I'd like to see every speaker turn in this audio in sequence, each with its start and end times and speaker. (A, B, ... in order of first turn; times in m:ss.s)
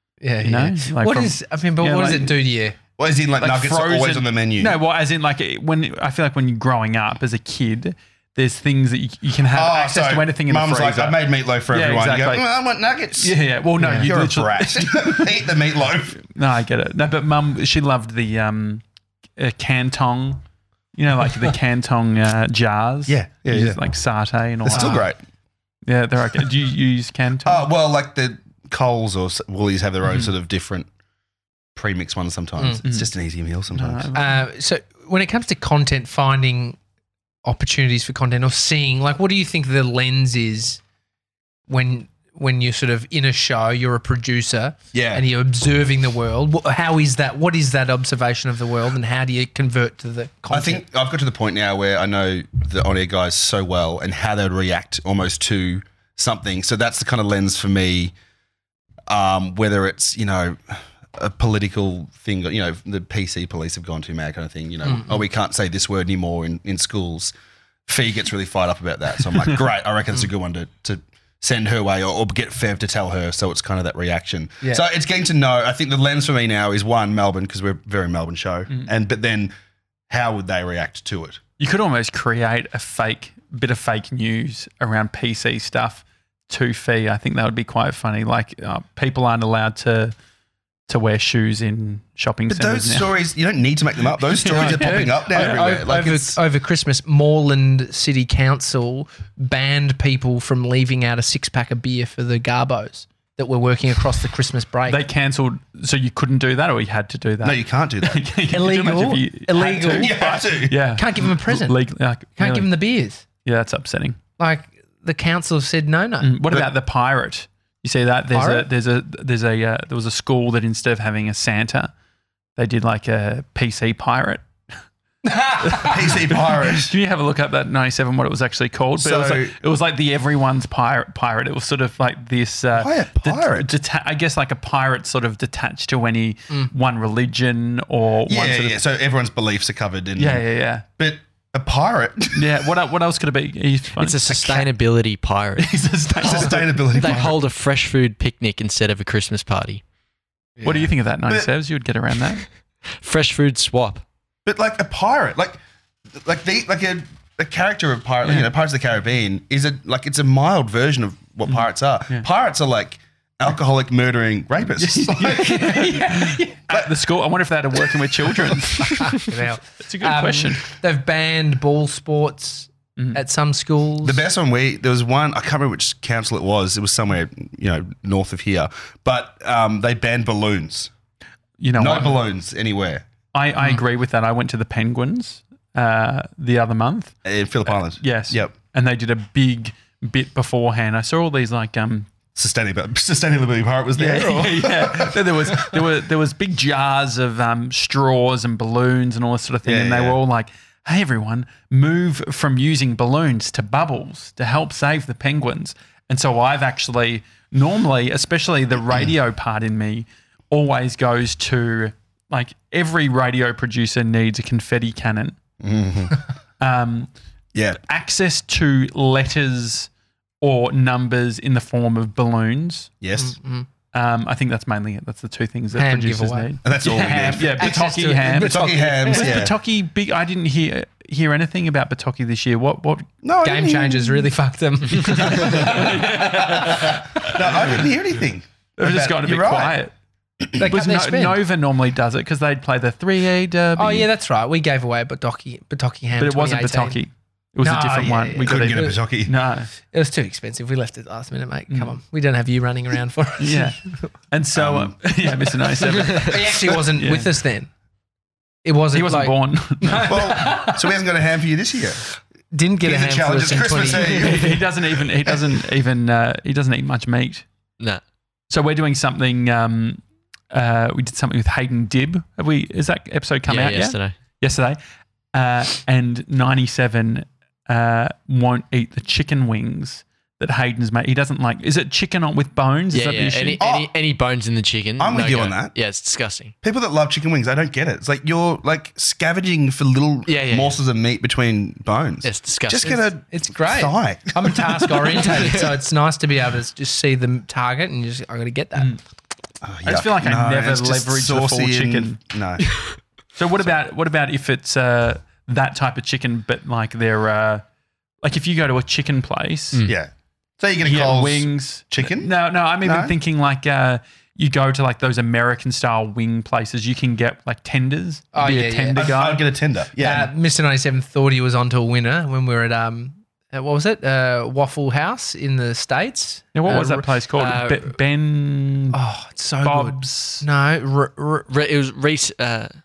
0:00.2-0:02.8 A
0:00.4-0:02.4 B
0:03.0-0:04.8 C
0:03.4-0:12.4 B
0:09.5-0:16.2 C
0:13.2-0:15.3 B
0:13.8-0:14.1 A
0:16.2-0:18.8 B
0:19.4-0:20.4 B
0:20.9-0:25.1 B
0:23.1-0:23.8 C
0:24.6-0:25.2 C
0:25.8-0:27.7 B
0:27.4-0:30.9 C
0:31.7-0:34.1 C
0:32.6-0:32.8 A
0:32.8-0:33.1 B
0:33.7-0:34.4 B
0:34.1-0:36.8 A
0:37.4-0:40.8 A
0:41.7-0:50.8 A
0:44.9-0:45.2 C
0:50.5-0:58.1 C
0:59.1-1:07.3 C
1:07.9-1:19.5 C
1:20.1-1:21.4 C
1:21.6-1:30.1 B
1:30.9-1:33.1 B
1:32.5-1:36.4 C
1:34.3-1:35.8 B
1:34.4-1:45.0 A
1:44.9-1:52.7 B
1:47.4-1:48.3 C
1:48.5-1:51.8 A
1:49.8-1:50.8 C
1:52.4-1:53.2 A
1:53.4-1:54.2 B
1:54.4-1:56.4 A
1:56.2-2:01.9 B
1:58.3-1:58.7 A
2:02.6-2:04.4 B
2:05.2-2:06.0 A
2:05.6-2:18.8 B
2:05.8-2:06.9 C
2:09.0-2:09.6 C
2:12.7-2:13.7 C
2:18.3-2:20.4 C
2:20.2-2:20.8 B
2:21.0-2:22.6 C
2:22.3-2:24.7 B
2:24.0-2:25.7 D
2:25.6-2:27.2 B
2:26.2-2:27.4 C
2:26.9-2:29.8 D
2:30.6-2:32.4 B
2:33.0-2:34.0 D
2:34.4-2:35.6 C
2:36.2-2:46.0 C
2:41.5-2:42.2 B
2:44.8-2:50.6 B
2:45.4-2:46.6 A
2:48.2-2:48.6 C
2:49.0-2:54.2 A
2:54.0-3:00.9 C
3:01.6-3:02.2 B
3:01.8-3:03.0 C
3:03.3-3:07.1 B
3:07.2-3:08.5 C
3:07.7-3:12.1 B
3:12.4-3:15.8 C
3:14.0-3:35.4 B
3:19.6-3:20.2 C
3:35.6-3:36.2 C
3:36.6-3:37.1 B
3:37.5-3:37.8 C
3:37.8-3:39.9 B
3:40.4-3:42.9 B
3:43.0-3:43.4 C
3:43.2-3:43.7 A
3:43.9-3:53.1 B
3:45.7-3:49.5 A
3:46.6-3:49.5 C
3:53.2-3:54.3 C
3:53.4-3:57.0 A
3:55.0-3:57.8 B
3:55.2-3:59.8 C
3:58.8-3:59.9 B
4:00.6-4:01.4 A
4:00.6-4:04.1 B
4:03.8-4:07.0 A
4:06.2-4:09.7 B
4:07.6-4:09.0 A
4:08.4-4:09.3 C
4:09.9-4:13.9 A
4:11.7-4:12.0 B
4:13.4-4:17.3 B
4:14.5-4:15.0 C
4:16.1-4:17.7 A
4:18.6-4:20.8 A
4:18.9-4:20.5 B
4:20.0-4:22.0 C
4:22.5-4:24.6 A
4:22.8-4:24.6 C
4:23.9-4:27.4 B
4:28.5-4:34.8 B
4:33.5-4:34.1 D
4:35.3-4:43.6 B
4:42.9-4:46.5 D
4:43.6-4:43.9 C
4:45.0-4:45.7 C
4:46.6-4:55.5 C
4:50.3-4:50.8 D
4:52.2-4:53.1 D
4:53.3-4:59.0 A
4:55.2-4:55.7 D
4:59.6-5:02.7 C
4:59.8-5:02.2 B
5:03.4-5:07.6 B
5:08.2-5:09.8 B
5:09.8-5:13.1 C
5:10.8-5:19.4 B
5:18.3-5:19.1 A
5:18.9-5:20.3 C
5:20.0-5:27.6 A
5:26.5-5:29.0 B
5:27.4-5:27.8 D
5:28.9-5:31.5 A
5:29.6-5:30.4 B
5:31.5-5:32.7 D